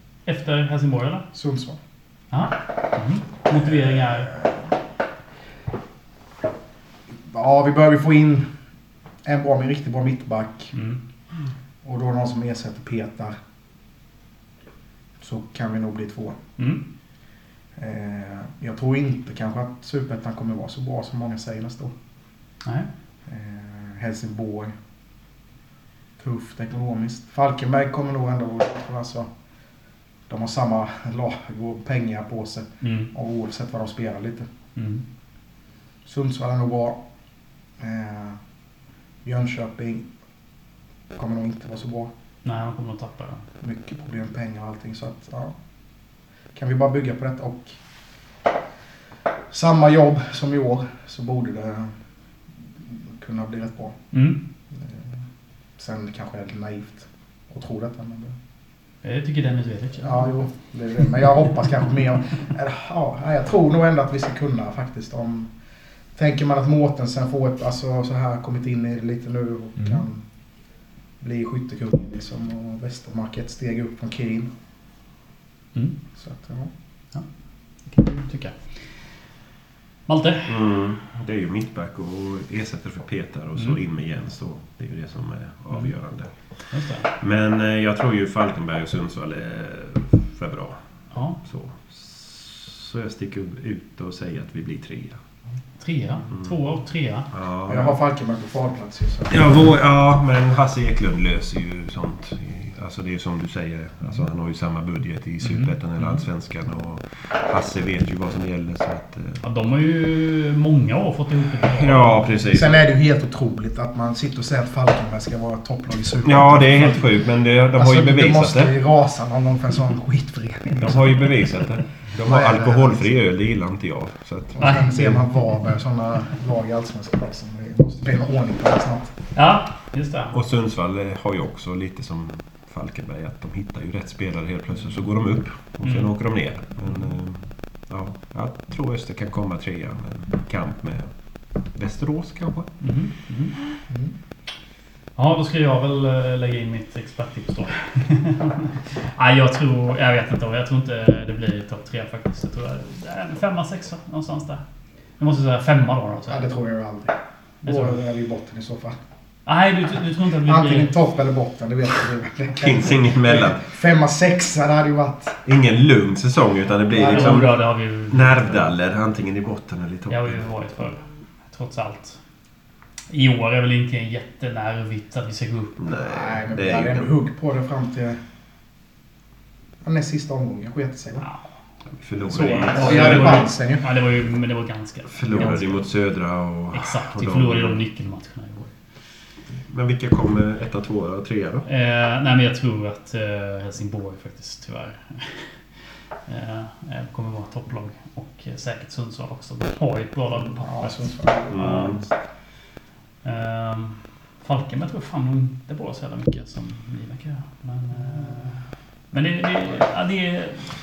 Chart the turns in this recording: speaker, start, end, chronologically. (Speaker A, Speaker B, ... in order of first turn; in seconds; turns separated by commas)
Speaker A: 0.2-1.2, Speaker B: 1.3-1.8, Speaker A: 2.3-4.3, Speaker B: 3.5-4.7, Speaker B: 7.2-8.5, Speaker B: 9.2-10.7, Speaker A: 10.7-11.0, Speaker B: 11.8-13.3, Speaker B: 15.2-16.4, Speaker B: 17.8-21.9, Speaker B: 23.2-24.7, Speaker B: 26.2-29.3, Speaker B: 30.3-34.5, Speaker A: 32.8-33.1, Speaker A: 34.8-35.0, Speaker B: 36.0-37.0, Speaker B: 37.8-38.4, Speaker B: 39.2-40.1, Speaker B: 41.1-42.1, Speaker A: 42.4-43.4, Speaker B: 43.6-45.5, Speaker B: 46.5-47.8, Speaker B: 49.5-51.9, Speaker B: 52.8-54.0, Speaker A: 54.1-54.4, Speaker B: 54.7-55.1, Speaker B: 55.8-58.4, Speaker A: 59.0-60.3, Speaker B: 60.0-65.5, Speaker B: 66.1-70.2, Speaker B: 71.2-74.5, Speaker B: 76.2-76.7, Speaker A: 77.9-78.8, Speaker A: 80.1-80.5, Speaker C: 80.5-86.4, Speaker A: 86.7-87.1, Speaker C: 87.0-90.8, Speaker A: 91.1-91.4, Speaker C: 91.4-95.2, Speaker A: 95.8-97.3, Speaker C: 97.3-97.9, Speaker B: 97.7-99.4, Speaker C: 99.3-109.4, Speaker A: 105.4-106.2, Speaker A: 109.4-112.3, Speaker C: 111.6-112.8, Speaker B: 112.5-117.0, Speaker C: 116.2-118.7, Speaker B: 117.8-121.3, Speaker C: 120.8-125.2, Speaker B: 122.2-123.2, Speaker B: 124.5-129.1, Speaker A: 124.6-125.2, Speaker A: 129.3-130.3, Speaker C: 130.3-141.1, Speaker A: 135.8-136.1, Speaker C: 141.7-142.7, Speaker A: 142.8-143.5, Speaker A: 145.2-154.6, Speaker A: 155.2-156.5, Speaker B: 156.3-159.0, Speaker A: 157.6-158.0, Speaker A: 159.4-160.9, Speaker B: 160.4-165.4, Speaker C: 162.6-163.6, Speaker C: 165.4-170.4, Speaker B: 166.9-167.5, Speaker A: 167.0-168.6, Speaker A: 170.1-172.2, Speaker A: 173.1-175.8, Speaker C: 175.8-177.1, Speaker B: 175.9-178.2, Speaker B: 179.8-181.2, Speaker C: 182.0-183.4, Speaker A: 182.3-185.8, Speaker B: 182.3-183.9, Speaker C: 185.1-187.8, Speaker B: 185.3-185.6, Speaker A: 186.7-188.7, Speaker C: 189.6-191.6, Speaker A: 191.7-195.5, Speaker A: 196.3-201.9, Speaker B: 200.3-202.1, Speaker C: 201.5-202.0, Speaker A: 203.2-208.6, Speaker A: 209.1-210.7